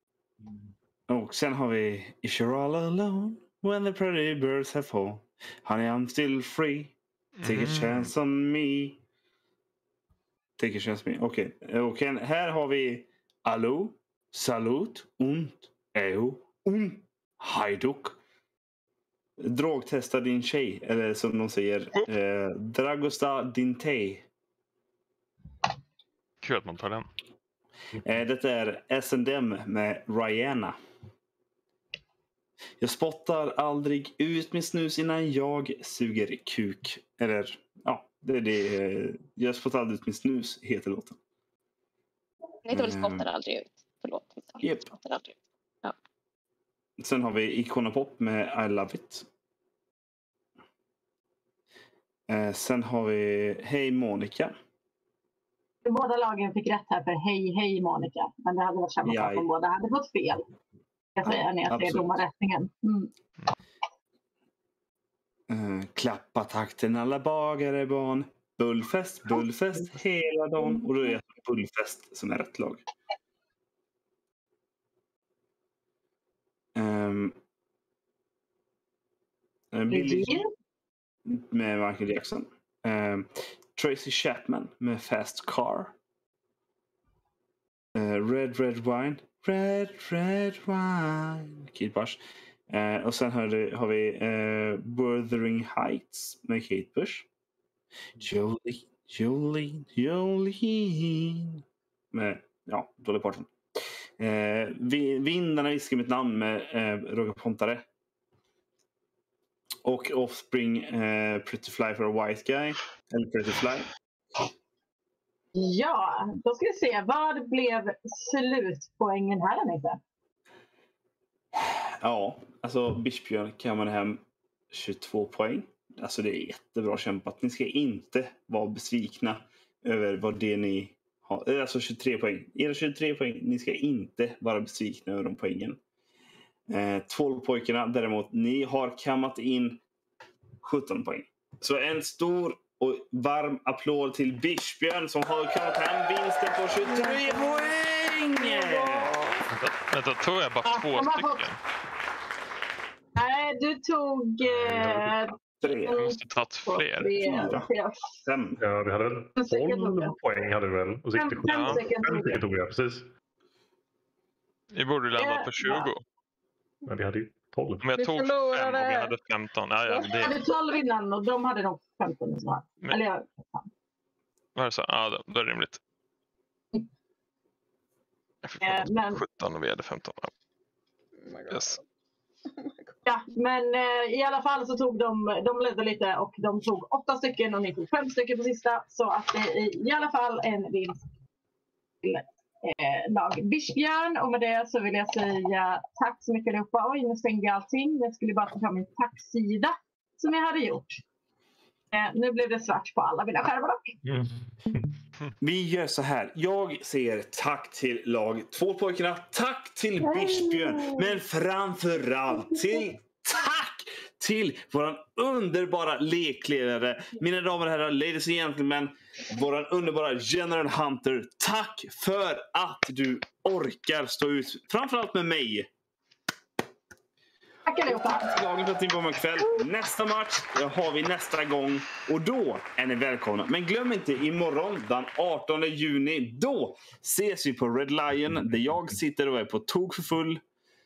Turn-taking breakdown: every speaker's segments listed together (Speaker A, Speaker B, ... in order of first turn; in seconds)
Speaker A: 1.1-9.0, 10.6-18.2, 19.4-24.2, 28.0-30.8, 32.8-41.2, 42.7-43.3, 44.6-44.9, 47.0-49.3, 52.3-54.5, 59.0-59.5, 61.2-62.1, 65.5-72.8, 76.8-77.4, 79.7-80.4, 81.3-86.0, 88.0-92.2, 92.7-97.3, 98.2-103.5, 104.2-107.8, 109.8-113.9, 121.5-135.8, 136.7-139.8, 140.6-149.2, 154.6-156.0, 157.2-157.7, 158.2-158.6, 205.4-225.7, 227.9-240.4
Speaker B: 7.4-8.1, 26.4-27.1, 149.5-151.6, 155.9-157.5, 161.5-161.8, 164.7-166.0, 167.8-170.5, 174.6-175.8, 178.4-180.3, 181.5-181.8
Speaker C: 42.6-46.0
Speaker D: 55.8-60.4, 61.2-63.1, 79.9-80.5, 115.5-120.0, 150.7-151.5, 153.2-158.1, 159.4-160.2, 161.2-162.4, 165.2-165.9, 169.9-173.7, 178.6-179.2, 183.1-191.0, 192.0-201.0, 201.9-204.0, 227.7-228.3
Speaker E: 146.9-147.7, 148.5-149.4, 167.9-169.2, 181.2-181.8, 182.5-183.0
Speaker F: 158.6-163.1, 166.9-167.8, 204.1-205.0